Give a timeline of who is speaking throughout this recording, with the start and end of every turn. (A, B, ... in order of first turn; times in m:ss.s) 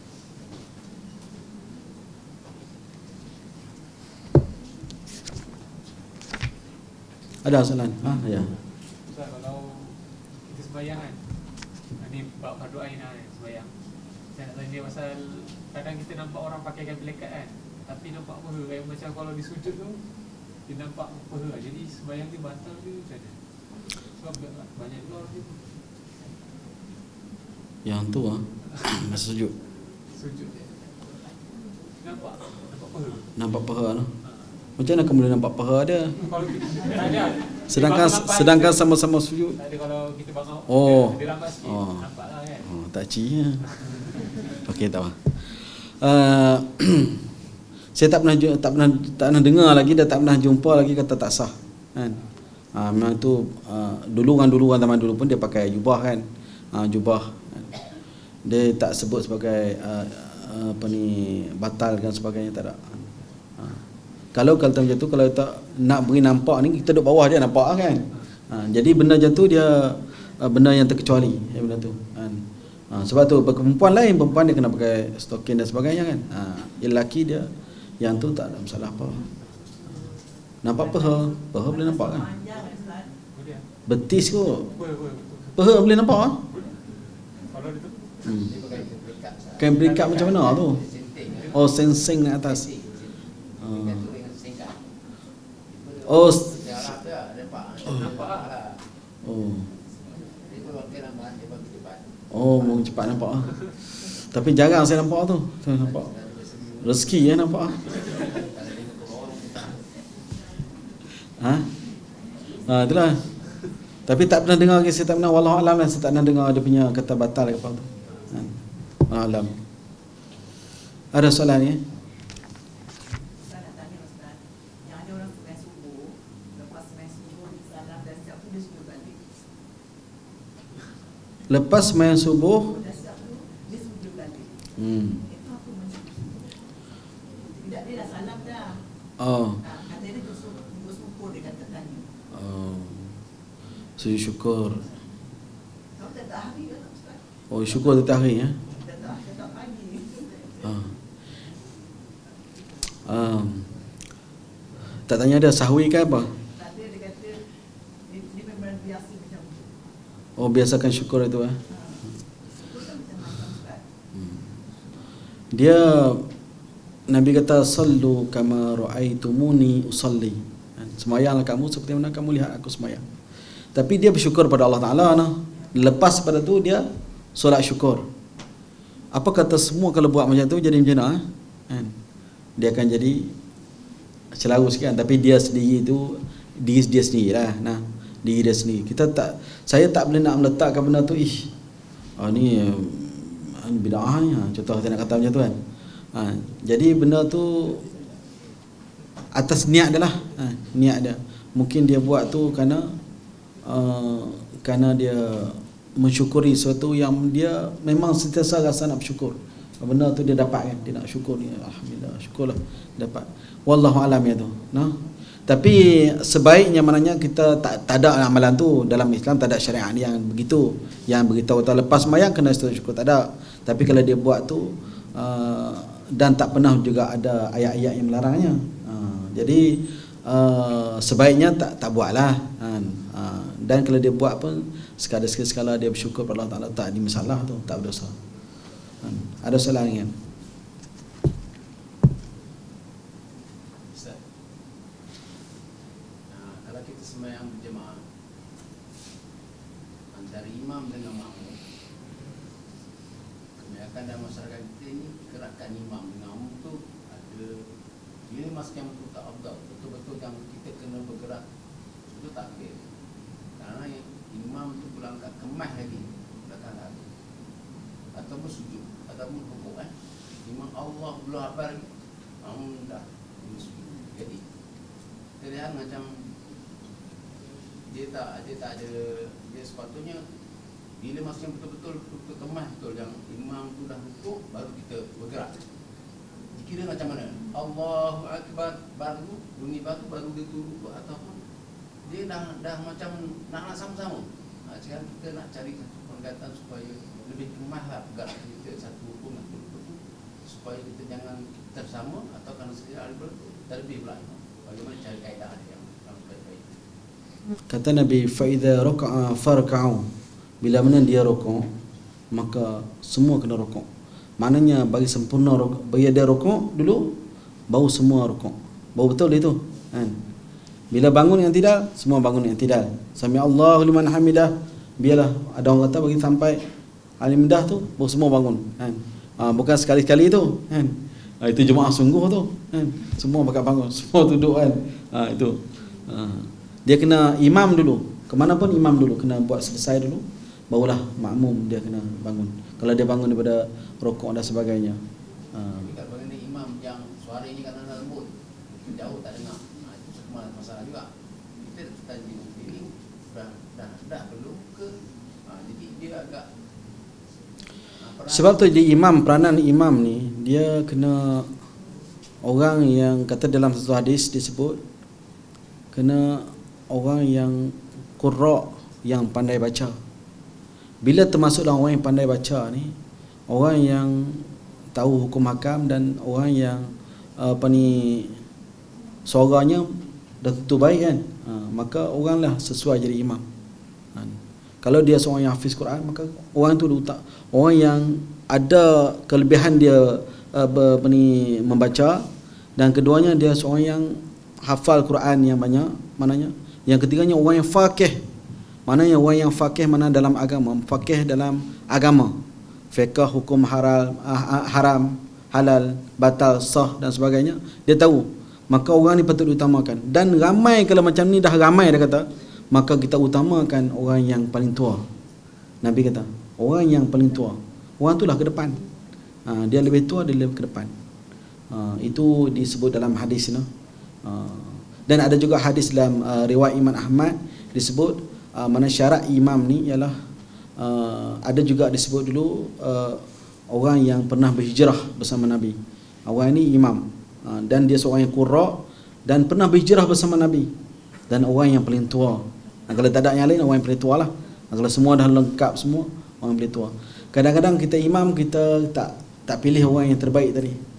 0:07.4-0:08.5 A
0:09.1-0:09.9 B
0:10.5-0:11.2 B
0:12.0-0:13.7 B
0:14.4-0:20.0 B
0:20.7-0:23.4 B
0:24.2-0:25.6 B
0:27.9-0:29.5 A
0:30.2-0:30.6 B
0:32.0-0:33.2 B
0:33.4-0:34.1 A
0:34.8-0:36.2 A
0:36.2-0:38.9 B
0:37.7-0:39.6 A
0:39.6-0:42.7 B
0:40.7-0:42.1 A
0:42.6-0:43.6 A
0:44.6-0:45.2 A
0:46.0-0:47.2 A
0:48.0-0:52.2 A
0:52.8-0:57.8 A
0:58.5-1:03.1 A
1:04.3-1:17.5 A
1:18.0-1:19.2 A
1:20.6-1:22.3 A
1:20.8-1:23.2 C
1:23.4-1:23.6 B
1:23.9-1:24.7 A
1:24.7-1:25.5 B
1:25.6-1:26.4 A
1:27.5-1:27.9 B
1:28.2-1:28.5 A
1:28.5-1:34.9 D
1:29.6-1:30.8 A
1:31.5-1:32.6 A
1:33.6-1:34.0 A
1:35.7-1:38.8 D
1:36.1-1:36.5 A
1:39.2-1:39.7 A
1:40.1-1:42.1 D
1:42.3-1:43.5 A
1:44.3-1:46.1 A
1:45.8-1:49.8 D
1:46.8-1:47.8 A
1:51.4-1:51.7 A
1:52.7-1:53.2 A
1:54.1-1:58.5 A
1:59.1-1:59.6 A
2:01.1-2:01.8 A
2:03.4-2:09.2 C
2:11.5-2:12.7 A
2:12.7-2:16.5 C
2:14.8-2:15.2 A
2:17.4-2:18.8 C
2:19.2-2:19.6 A
2:19.6-2:22.0 C
2:22.3-2:23.1 A
2:24.0-2:24.9 A
2:26.0-2:28.1 C
2:27.5-2:28.6 A
2:28.7-2:30.8 C
2:30.6-2:30.9 A
2:33.1-2:33.7 A
2:35.1-2:36.3 A
2:36.5-2:37.4 C
2:38.1-2:39.7 C
2:40.4-2:41.6 A
2:41.7-2:43.8 C
2:44.2-2:44.4 A
2:45.5-2:46.3 A
2:47.1-2:53.0 A
2:53.8-2:58.0 A
2:59.1-3:01.9 A
3:02.6-3:03.3 A
3:04.4-3:11.5 A
3:12.2-3:15.6 A
3:16.1-3:17.9 A
3:19.4-3:23.0 A
3:23.7-3:58.2 A
3:59.0-4:00.1 A
4:03.9-4:04.2 D
4:06.3-4:08.0 D
4:10.1-4:11.6 D
4:13.6-4:17.6 D
4:18.3-4:21.4 D
4:22.1-4:22.9 D
4:23.6-4:27.1 D
4:28.1-4:29.9 D
4:30.4-4:31.9 D
4:32.4-4:34.4 D
4:35.4-4:36.2 D
4:37.9-4:40.2 D
4:41.0-4:45.6 D
4:46.5-4:51.4 D
4:52.0-5:06.8 D
5:07.7-5:10.1 A
5:10.6-5:11.7 A
5:12.3-5:13.9 A
5:14.4-5:17.2 A
5:17.7-5:20.2 A
5:20.9-5:26.6 A
5:27.2-5:45.0 A
5:45.5-5:45.8 A
5:45.8-5:54.9 D
5:55.4-5:56.5 D
5:58.0-5:58.9 D
5:58.3-6:01.5 A
6:02.4-6:04.8 A
6:05.9-6:10.0 A
6:11.0-6:13.0 A
6:13.5-6:18.4 A
6:19.3-6:23.4 A
6:24.2-6:32.2 A
6:32.8-6:38.2 A
6:38.9-6:42.4 A
6:42.9-6:55.0 A
6:55.8-6:58.8 A
6:59.5-7:00.9 A
7:01.7-7:03.7 A
7:04.2-7:10.1 A
7:10.8-7:20.7 A
7:21.3-7:30.8 A